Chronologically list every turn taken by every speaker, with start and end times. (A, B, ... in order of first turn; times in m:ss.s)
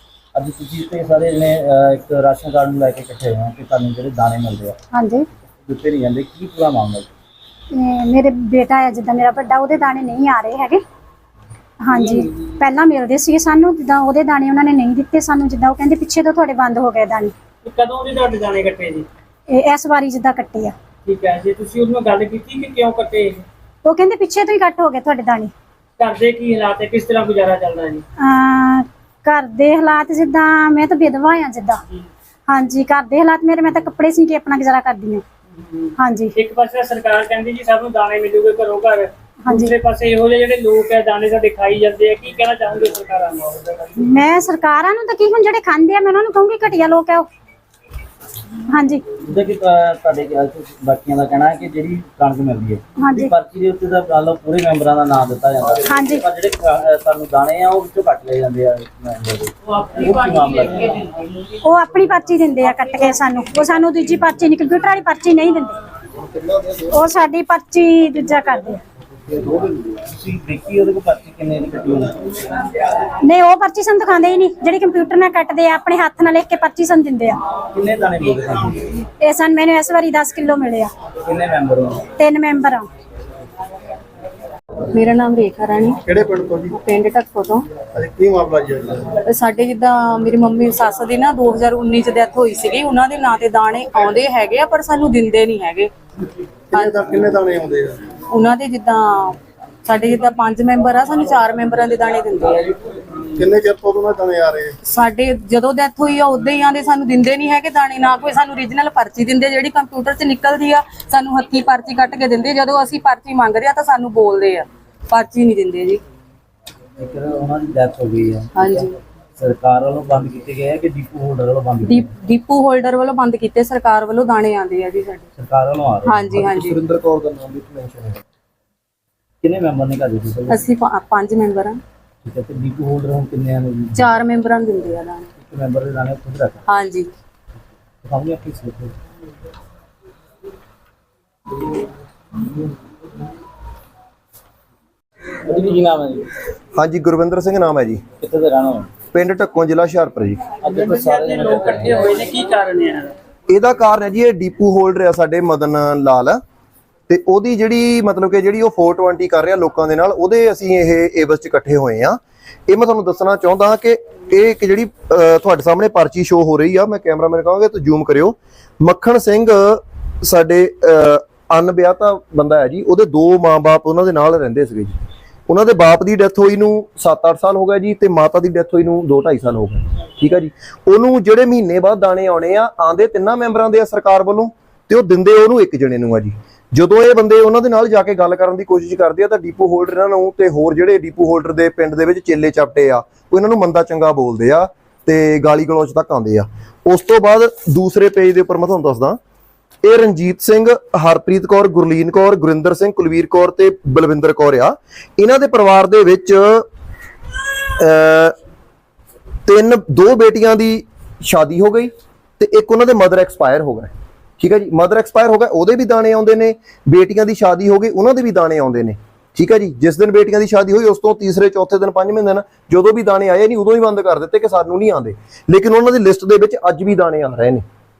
0:00.3-0:04.8 A
0:04.9-0:05.3 B
0:05.6-0:07.1 A
0:07.7-0:10.8 B
0:11.8-0:17.3 B
0:17.6-0:19.1 C
0:19.5-0:20.7 B
0:21.0-0:23.4 C
0:23.8-0:25.5 B
0:26.0-0:28.0 C
0:28.2-0:31.8 B
0:32.5-0:35.2 B
0:36.0-0:36.3 B
0:36.4-0:43.6 C
0:39.4-0:39.7 B
0:44.0-0:47.3 B
0:48.7-0:49.0 B
0:49.2-1:01.0 A
0:53.0-0:53.3 B
0:55.8-0:56.2 B
1:01.6-1:05.8 B
1:06.8-1:08.8 B
1:09.3-1:12.2 A
1:13.2-1:17.4 B
1:17.7-1:18.8 A
1:19.2-1:20.9 B
1:21.2-1:22.0 A
1:22.2-1:22.9 B
1:24.9-1:26.0 D
1:26.1-1:26.7 E
1:26.7-1:27.7 D
1:28.0-1:29.0 E
1:29.2-1:35.9 D
1:36.7-1:37.4 D
1:36.7-1:38.0 E
1:38.3-1:42.7 D
1:43.4-1:44.7 E
1:44.8-1:56.0 D
1:57.0-1:58.8 A
1:58.6-1:58.9 D
1:59.4-2:02.1 A
2:01.9-2:05.3 D
2:05.4-2:06.4 A
2:06.1-2:06.7 D
2:06.3-2:08.2 F
2:09.4-2:10.7 A
2:10.5-2:11.8 D
2:12.2-2:14.2 A
2:14.0-2:15.3 D
2:15.4-2:16.6 A
2:16.7-2:17.1 D
2:18.0-2:18.9 A
2:25.4-2:26.3 A
2:26.7-2:28.0 F
2:28.2-2:28.9 A
2:29.1-2:30.4 F
2:30.6-2:32.1 A
2:30.7-2:33.1 C
2:33.5-2:36.4 F
2:37.1-2:55.0 F
2:55.5-3:19.2 F
3:19.8-3:26.7 F
3:27.8-3:28.3 F
3:29.4-3:47.6 F